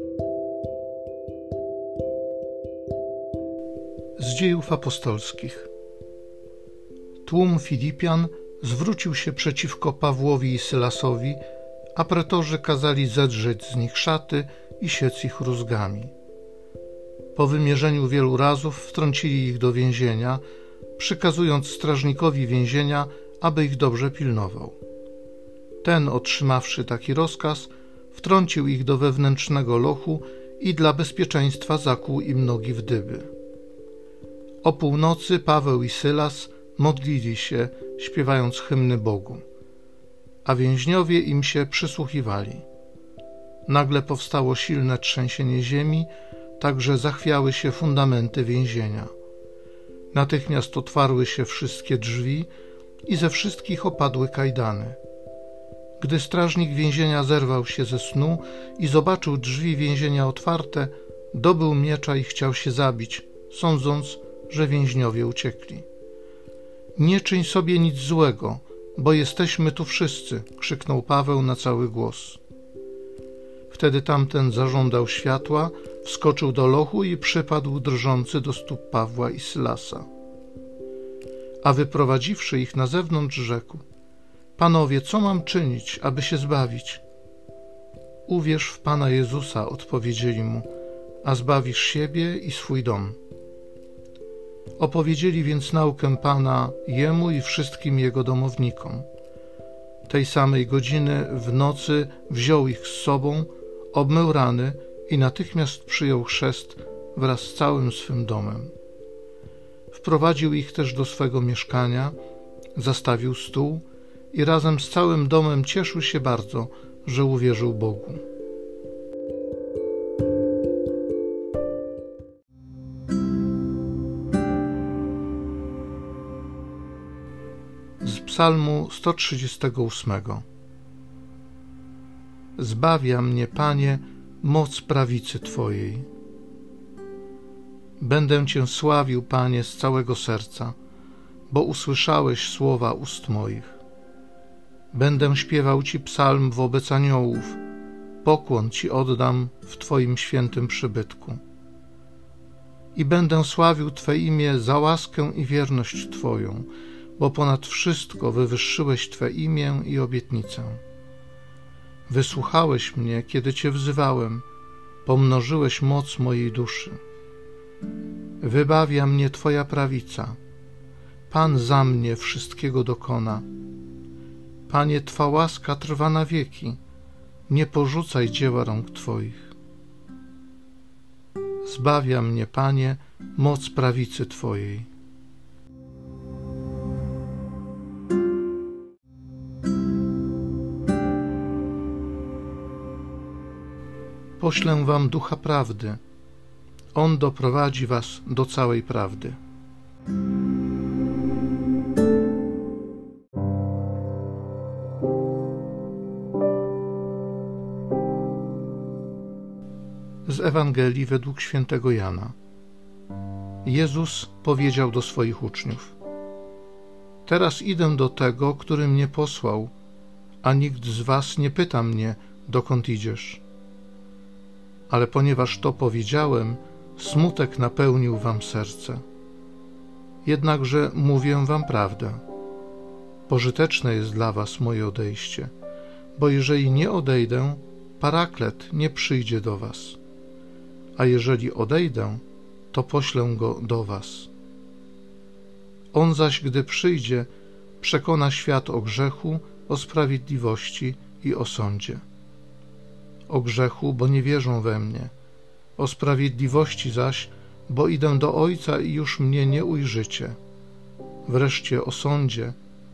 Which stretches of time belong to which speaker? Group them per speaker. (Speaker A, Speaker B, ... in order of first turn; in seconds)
Speaker A: 4.2-5.7, 7.2-11.4, 11.9-16.1, 17.4-20.4, 21.0-24.8, 25.8-33.3, 34.6-39.4, 40.4-42.6, 43.7-49.1, 50.1-52.5, 53.0-55.0, 56.0-65.8, 67.0-72.4, 73.7-80.1, 81.6-83.8, 84.6-87.0, 88.3-90.7, 91.2-93.2, 94.8-99.1, 100.1-108.7, 109.9-112.2, 112.8-118.2, 128.0-130.4, 132.6-136.1, 138.0-140.7, 141.5-143.8, 144.9-147.6, 148.2-151.4, 152.9-160.8, 162.1-164.4, 165.0-167.0, 168.4-170.4, 171.3-173.4, 174.7-176.8, 177.5-179.5, 181.6-184.9, 194.4-196.0, 196.9-199.4, 210.2-212.3, 213.6-215.9, 217.2-219.7, 220.4-223.4, 224.9-229.0, 230.2-232.2, 233.3-235.5, 236.2-240.0, 240.9-244.3, 245.9-252.0, 253.3-255.1, 255.8-260.4, 261.2-262.6